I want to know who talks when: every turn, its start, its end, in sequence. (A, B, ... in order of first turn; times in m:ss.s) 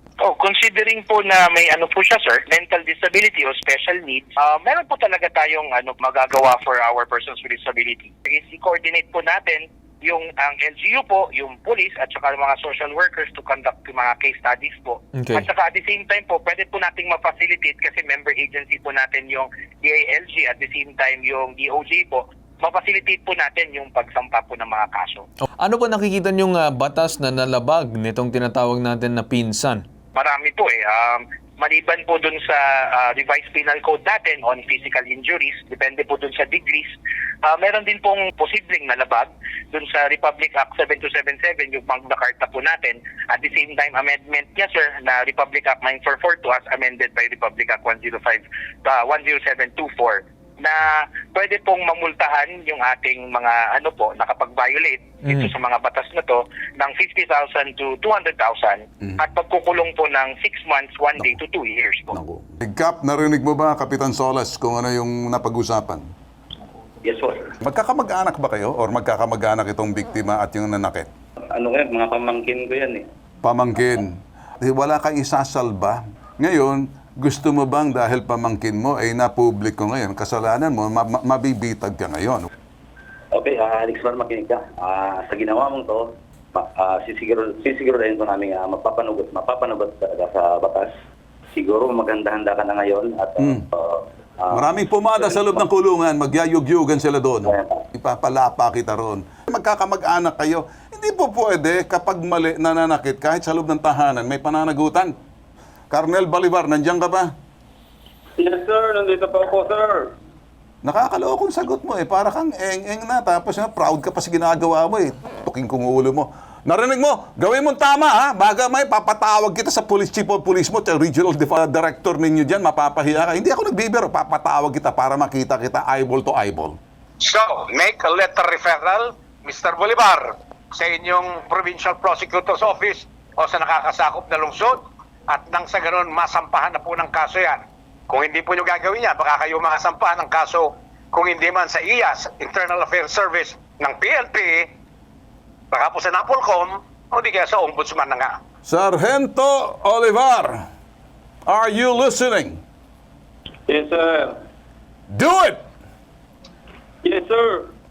0:00.2-0:25.2 A
0:15.2-0:15.4 B
0:25.6-0:29.8 B
0:30.1-1:02.2 A
1:02.1-1:06.0 C
1:07.0-1:07.5 D
1:07.6-1:11.1 C
1:11.5-1:13.0 D
1:13.4-1:22.5 C
1:23.3-1:30.9 D
1:31.5-1:35.6 D
1:33.4-1:33.6 C
1:34.5-1:45.1 C
1:37.4-1:37.8 D
1:45.9-1:47.3 C
1:48.4-1:50.1 E
1:50.8-2:06.8 C
2:07.2-2:24.7 F
2:25.7-2:28.3 F
2:28.6-2:30.5 C
2:31.5-2:32.6 C
2:33.7-2:34.3 E
2:35.1-2:35.6 C
2:37.0-2:37.7 E